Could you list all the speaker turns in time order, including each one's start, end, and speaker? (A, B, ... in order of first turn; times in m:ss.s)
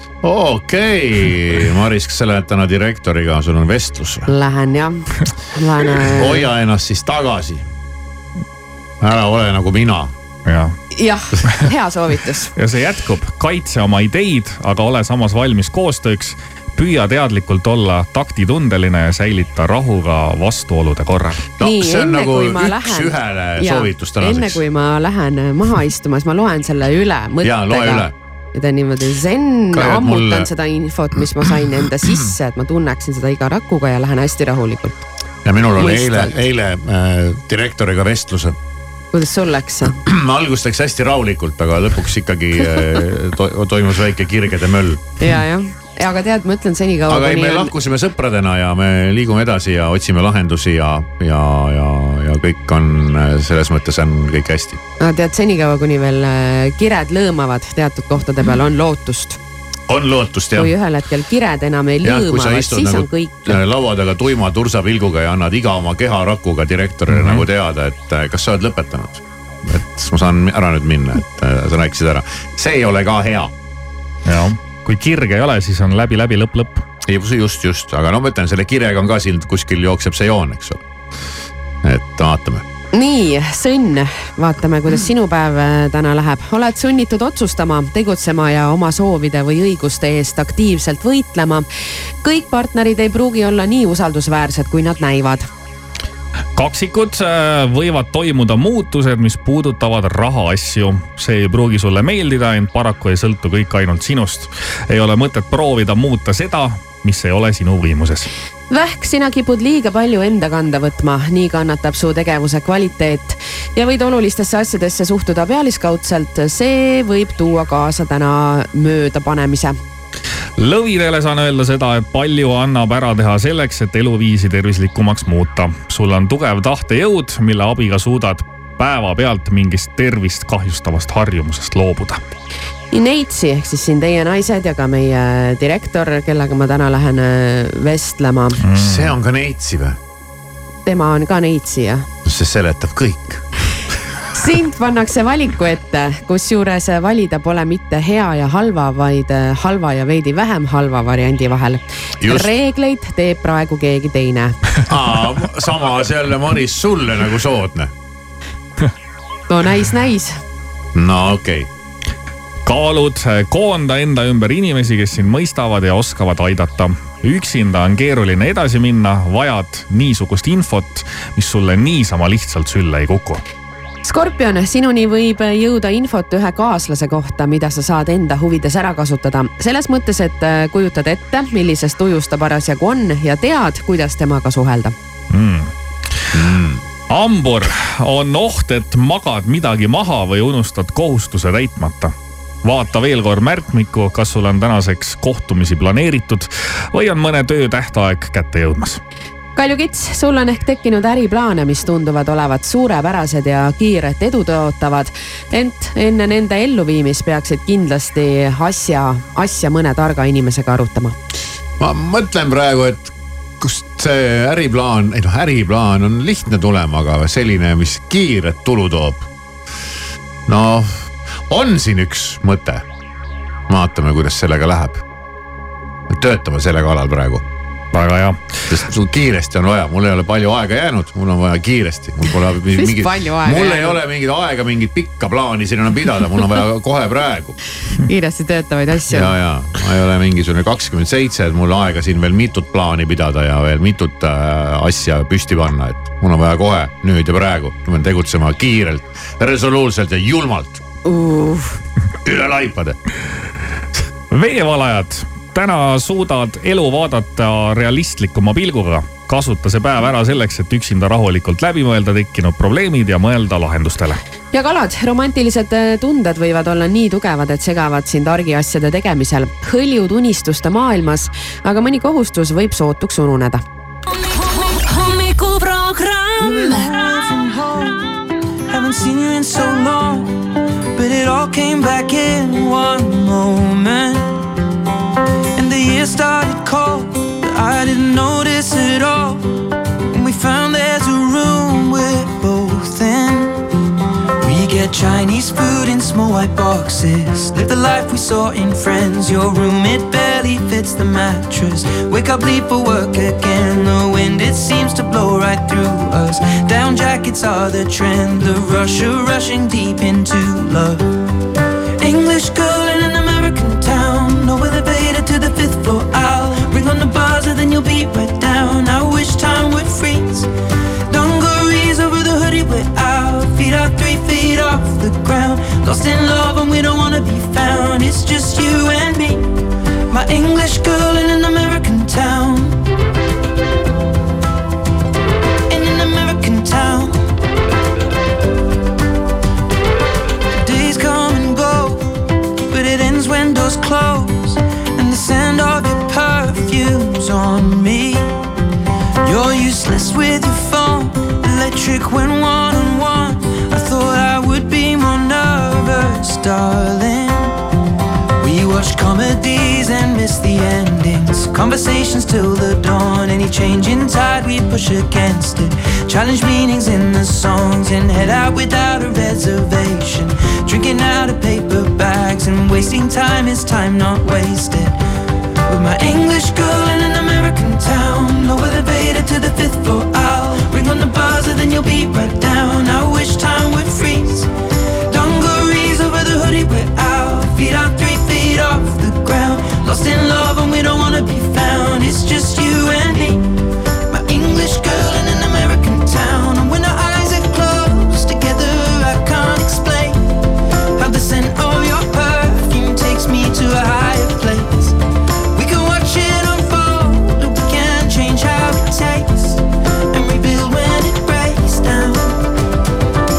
0:00.2-0:04.3 A
0:04.3-0:06.5 B
0:06.1-0:07.6 A
0:09.0-0:10.1 A
0:10.4-0:10.7 C
0:10.9-0:12.5 B
0:12.6-0:21.5 C
0:21.6-0:24.6 A
0:21.6-0:35.0 B
0:27.4-0:28.1 A
0:29.7-0:30.5 A
0:35.4-0:38.6 A
0:35.8-0:36.4 B
0:39.1-0:40.0 B
0:39.9-0:45.3 A
0:45.2-0:47.7 B
0:47.1-0:54.8 A
0:55.0-0:59.4 B
0:59.9-1:00.7 A
1:00.5-1:03.6 B
1:02.0-1:13.5 A
1:07.1-1:07.4 C
1:14.2-1:16.8 C
1:17.0-1:20.8 A
1:21.8-1:22.6 A
1:22.9-1:31.7 B
1:32.2-1:35.5 B
1:36.5-1:48.3 C
1:48.7-1:59.8 B
2:00.6-2:12.2 C
2:12.9-2:18.6 B
2:18.6-2:19.1 C
2:18.7-2:20.0 A
2:20.8-2:22.0 B
2:22.2-2:23.4 A
2:24.3-2:34.6 B
2:32.2-2:32.5 A
2:34.9-2:37.9 A
2:39.5-2:40.4 B
2:40.9-2:41.7 A
2:42.6-2:53.4 C
2:54.0-3:04.9 B
3:05.3-3:05.7 C
3:06.3-3:06.8 A
3:07.1-3:19.0 C
3:19.6-3:31.1 B
3:31.8-3:39.3 A
3:40.5-3:42.8 A
3:43.7-3:45.0 A
3:46.1-3:47.4 A
3:47.9-3:48.4 C
3:48.7-3:57.6 A
3:52.7-3:54.0 B
3:58.0-3:59.3 B
3:59.1-4:10.8 A
4:11.0-4:11.8 B
4:12.2-4:13.0 A
4:14.3-4:24.2 C
4:24.5-4:33.6 B
4:34.1-4:36.9 D
4:36.4-4:38.1 E
4:38.7-4:40.4 E
4:41.0-4:44.4 E
4:45.6-4:49.5 E
4:50.1-4:53.6 E
4:54.4-5:11.1 E
5:12.0-5:20.5 E
5:21.1-5:29.5 E
5:30.1-5:32.8 E
5:35.7-5:37.2 E
5:40.6-5:42.1 E
5:42.7-5:48.3 E
5:49.2-5:57.6 E
5:58.4-6:15.0 E
6:15.7-6:24.5 E
6:25.1-6:33.5 E
6:34.1-6:40.3 E
6:41.0-6:45.0 E
6:45.5-6:52.4 E